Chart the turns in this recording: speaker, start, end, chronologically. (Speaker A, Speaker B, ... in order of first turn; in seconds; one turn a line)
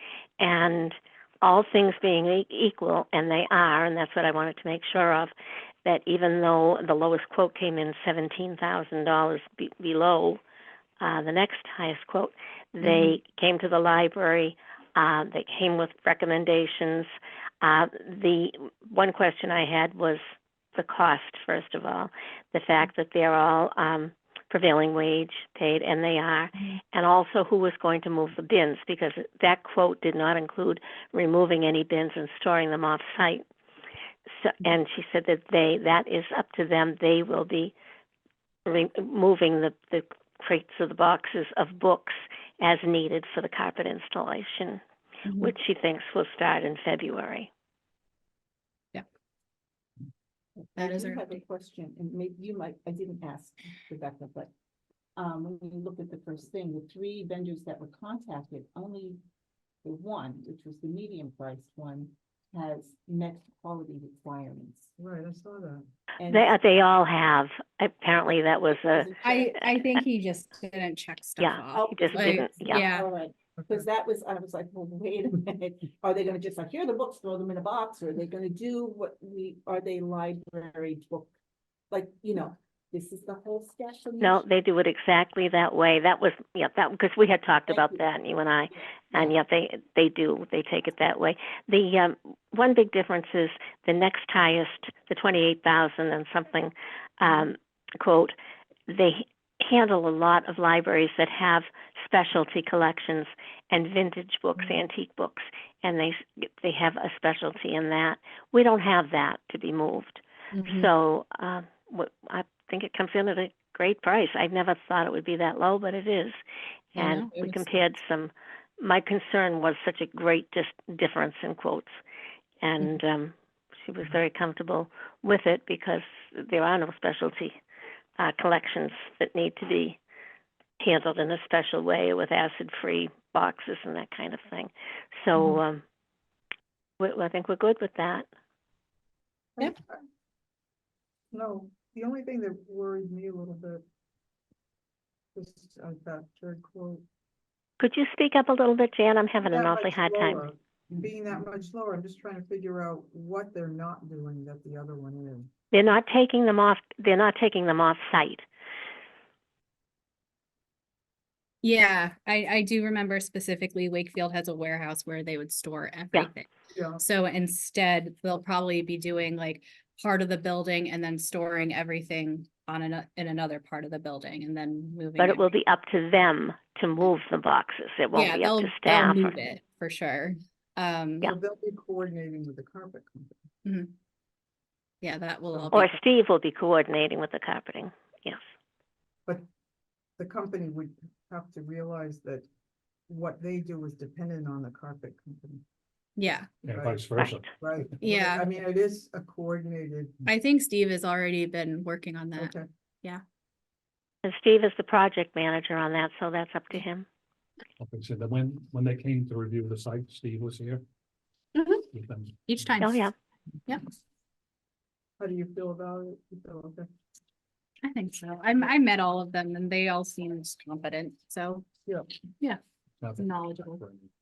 Speaker A: 0.4-5.3
Speaker A: 5.8-10.4
Speaker A: 11.0-17.1
Speaker B: 12.8-13.2
Speaker A: 17.6-20.2
Speaker A: 20.7-33.4
Speaker A: 34.4-37.7
Speaker A: 38.6-44.8
Speaker B: 45.3-45.5
Speaker A: 45.3-47.5
Speaker C: 50.6-54.5
Speaker B: 50.8-51.3
Speaker C: 55.1-59.2
Speaker C: 59.8-64.9
Speaker D: 65.0-65.8
Speaker C: 66.2-66.5
Speaker A: 66.3-69.1
Speaker C: 68.9-69.6
Speaker B: 69.2-73.1
Speaker A: 71.4-72.9
Speaker C: 71.7-81.3
Speaker D: 73.6-73.8
Speaker C: 81.9-84.4
Speaker A: 84.2-98.3
Speaker C: 87.7-88.1
Speaker C: 88.7-89.3
Speaker A: 98.9-116.4
Speaker B: 110.5-110.9
Speaker A: 116.9-122.0
Speaker B: 117.0-117.7
Speaker A: 122.6-127.6
Speaker A: 128.2-130.0
Speaker A: 130.8-135.8
Speaker A: 137.0-138.3
Speaker D: 139.6-140.0
Speaker D: 141.3-143.8
Speaker D: 145.3-147.0
Speaker A: 147.8-150.4
Speaker D: 149.4-155.5
Speaker A: 155.7-158.4
Speaker B: 161.6-175.4
Speaker D: 166.7-167.0
Speaker A: 175.2-179.3
Speaker B: 178.1-181.3
Speaker D: 181.2-183.3
Speaker B: 183.6-183.9
Speaker B: 185.0-186.0
Speaker A: 185.7-188.4
Speaker D: 190.2-192.4
Speaker D: 193.1-195.6
Speaker B: 196.2-196.5
Speaker E: 196.6-197.8
Speaker D: 196.7-200.2
Speaker B: 198.0-198.5
Speaker B: 200.2-203.2
Speaker D: 202.4-202.7
Speaker A: 204.2-207.1
Speaker E: 207.8-210.8
Speaker B: 211.5-211.8
Speaker E: 211.9-212.7
Speaker B: 212.4-213.1
Speaker A: 212.8-213.1
Speaker D: 215.2-216.9
Speaker B: 217.8-221.7
Speaker E: 223.0-224.1
Speaker B: 223.2-223.8